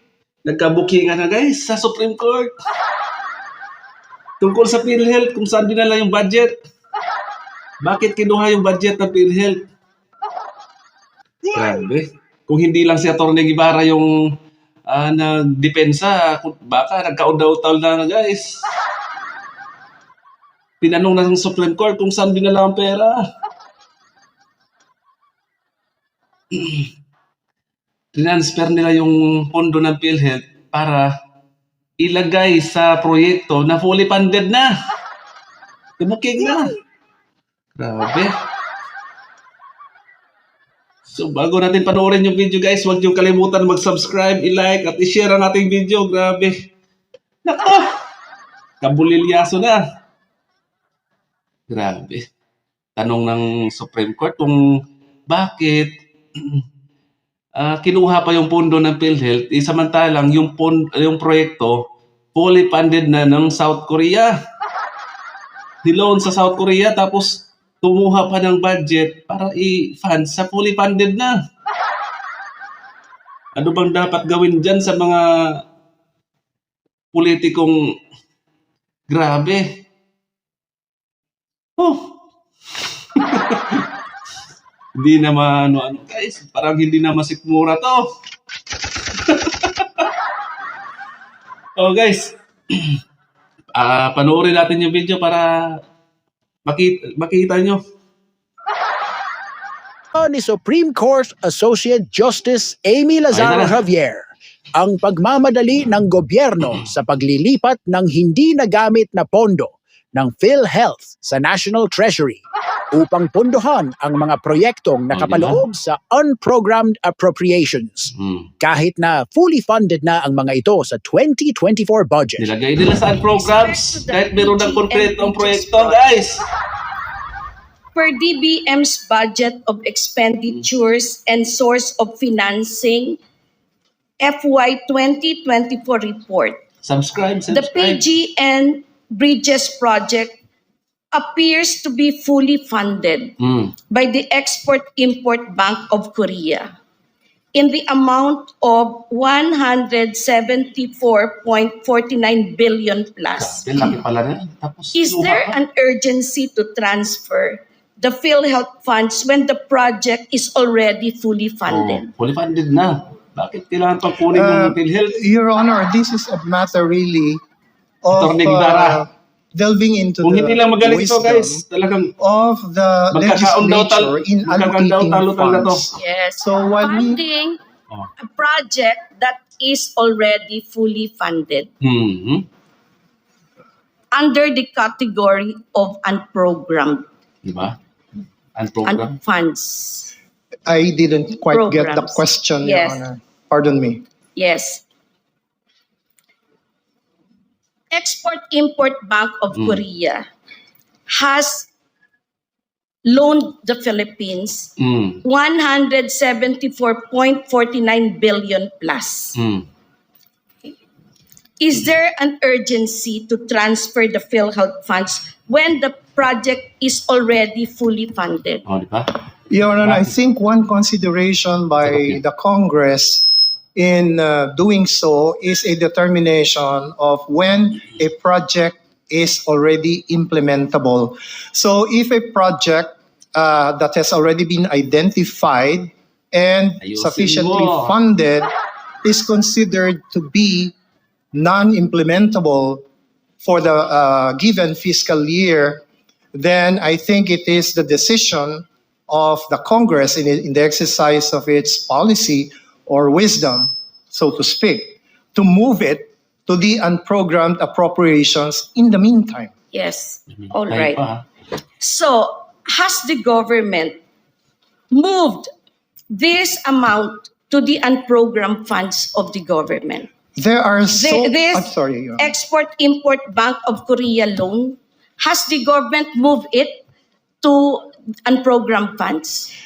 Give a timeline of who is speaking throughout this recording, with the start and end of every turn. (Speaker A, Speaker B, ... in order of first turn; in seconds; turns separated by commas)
Speaker A: 0.4-2.5, Speaker A: 4.4-6.5, Speaker A: 7.8-9.6, Speaker A: 11.5-14.1, Speaker A: 14.9-18.5, Speaker A: 20.8-23.2, Speaker A: 26.5-26.9, Speaker A: 28.1-31.1, Speaker A: 32.0-34.7, Speaker A: 36.0-36.8, Speaker A: 37.8-38.3, Speaker A: 41.1-46.5, Speaker A: 47.4-47.9, Speaker A: 48.8-49.8, Speaker A: 51.7-52.2, Speaker A: 53.0-54.6, Speaker A: 55.3-56.6, Speaker A: 57.6-61.8, Speaker A: 62.3-64.3, Speaker A: 65.8-71.3, Speaker A: 73.5-75.2, Speaker A: 77.1-77.7, Speaker A: 79.1-79.6, Speaker A: 81.8-82.1, Speaker A: 83.1-83.8, Speaker A: 85.0-88.0, Speaker A: 89.2-90.1, Speaker A: 91.8-93.0, Speaker A: 93.8-95.8, Speaker A: 96.7-97.8, Speaker B: 100.1-122.5, Speaker A: 103.3-103.8, Speaker A: 115.1-115.6, Speaker A: 122.4-126.5, Speaker C: 123.3-126.1, Speaker C: 127.9-133.2, Speaker C: 134.2-136.6, Speaker A: 136.8-138.0, Speaker C: 137.5-140.4, Speaker C: 141.1-143.3, Speaker A: 143.4-143.7, Speaker C: 143.9-146.7, Speaker C: 147.5-153.7, Speaker A: 153.4-155.6, Speaker C: 154.9-162.1, Speaker A: 161.7-165.1, Speaker D: 164.3-167.4, Speaker D: 168.0-171.6, Speaker A: 168.1-169.0, Speaker A: 170.2-172.1, Speaker D: 172.2-177.2, Speaker A: 173.1-175.8, Speaker C: 175.9-177.6, Speaker C: 178.2-181.7, Speaker A: 181.8-182.4, Speaker C: 184.1-187.1, Speaker A: 187.4-187.8, Speaker A: 188.6-189.1, Speaker C: 188.8-190.1, Speaker D: 190.7-194.0, Speaker C: 191.5-193.1, Speaker C: 194.3-194.8, Speaker C: 197.9-200.3, Speaker C: 201.1-201.7, Speaker C: 203.0-204.7, Speaker A: 204.8-205.2, Speaker C: 205.2-209.4, Speaker A: 209.3-209.7, Speaker C: 211.6-218.6, Speaker A: 218.7-219.1, Speaker D: 219.5-238.5, Speaker A: 219.8-220.1, Speaker A: 221.8-222.2, Speaker A: 236.8-237.9, Speaker D: 239.0-240.7, Speaker D: 241.3-242.8, Speaker D: 243.4-259.5, Speaker C: 259.7-261.0, Speaker A: 260.7-261.2, Speaker C: 261.8-264.0, Speaker C: 264.9-265.5, Speaker C: 266.1-270.1, Speaker D: 270.4-272.3, Speaker C: 270.9-276.8, Speaker C: 277.4-279.5